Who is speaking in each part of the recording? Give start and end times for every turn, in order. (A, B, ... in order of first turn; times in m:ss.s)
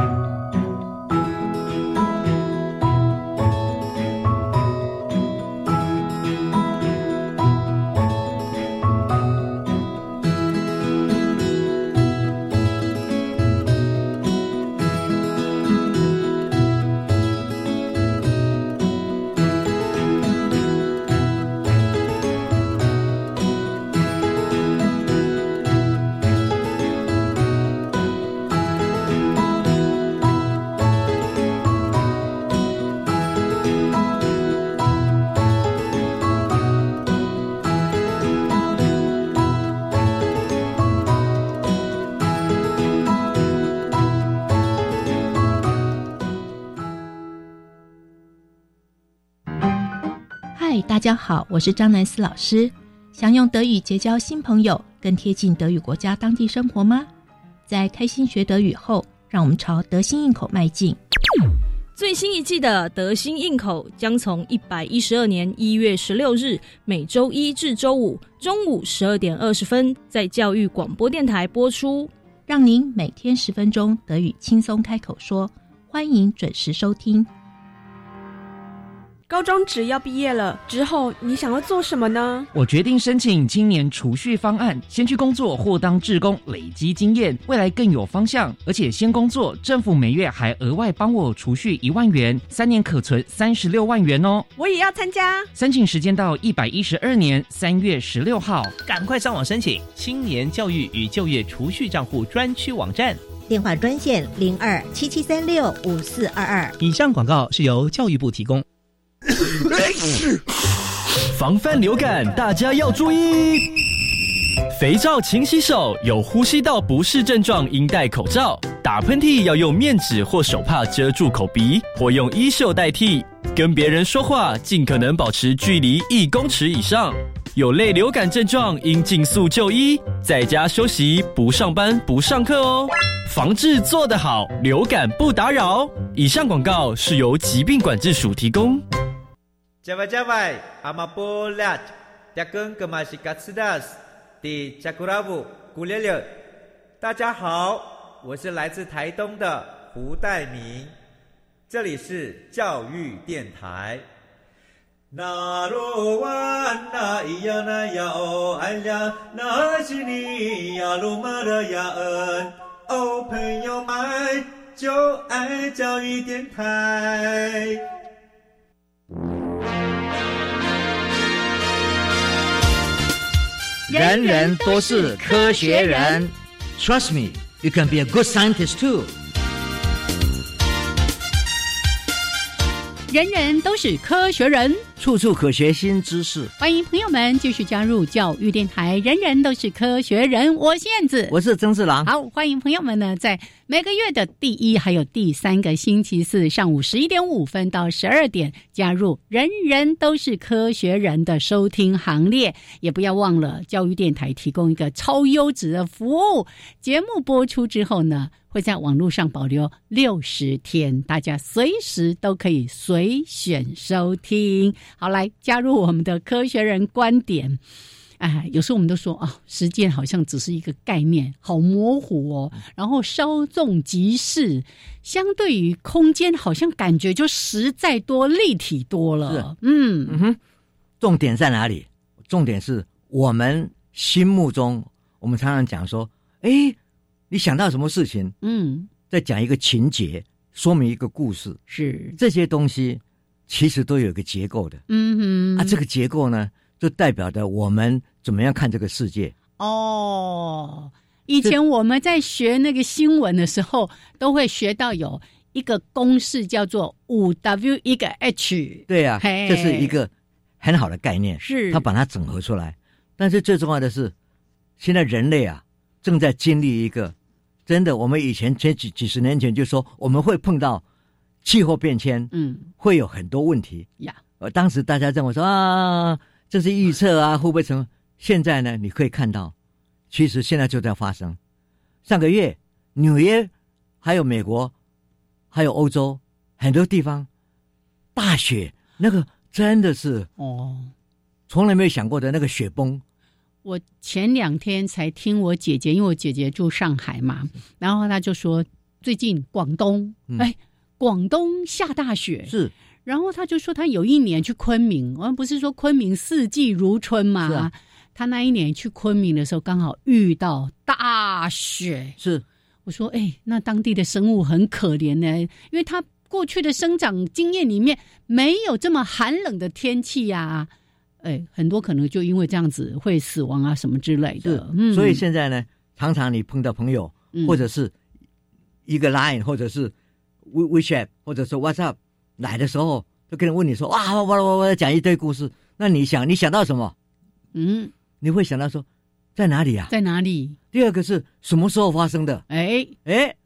0:50.5-0:57.1 A
0:57.7-1:01.0 A
1:01.9-1:12.1 B
1:12.5-1:17.3 A
1:19.3-1:22.5 C
1:22.5-1:34.5 D
1:34.6-1:35.5 C
1:35.5-1:38.8 D
1:38.8-1:43.2 E
1:43.5-1:46.7 F
1:46.8-1:48.6 E
1:51.2-1:53.9 G
1:54.7-2:18.8 G
2:19.8-2:26.3 H
2:27.0-2:30.9 H
2:31.7-2:34.0 H
2:35.1-2:47.8 H
2:53.9-2:59.1 I
2:53.9-2:56.2 J
3:03.1-3:04.8 J
3:05.0-3:06.5 I
3:06.6-3:11.3 J
3:11.3-3:12.1 I
3:12.0-3:37.6 J
3:38.2-3:50.2 J
3:50.1-3:50.4 I
3:51.0-3:56.8 I
3:57.3-3:58.3 I
3:58.4-3:58.9 J
3:59.1-4:01.6 I
4:01.7-4:02.2 J
4:02.2-4:04.8 I
4:04.9-4:05.8 J
4:05.6-4:09.3 I
4:09.6-4:19.9 J
4:18.9-4:24.1 I
4:21.4-4:21.8 J
4:24.8-4:27.1 I
4:27.6-4:30.8 I
4:31.4-4:33.9 I
4:32.3-4:32.7 J
4:34.4-4:39.5 I
4:40.1-4:41.4 I
4:42.0-4:43.5 I
4:44.0-4:44.7 I
4:45.5-4:47.3 I
4:48.2-4:50.3 I
4:50.4-4:50.9 J
4:51.5-4:53.0 I
4:53.6-5:02.5 J
5:02.5-5:02.7 I
5:03.0-5:12.2 J
5:07.4-5:07.7 I
5:12.2-5:12.4 I
5:12.8-5:20.7 J
5:21.2-5:25.2 J
5:24.4-5:27.9 I
5:27.3-5:27.6 J
5:28.8-5:29.9 I
5:30.4-5:36.9 I
5:37.5-5:37.9 J
5:38.2-5:39.9 I
5:39.9-5:40.6 J
5:40.7-5:42.4 I
5:42.5-5:42.9 J
5:43.0-5:43.4 I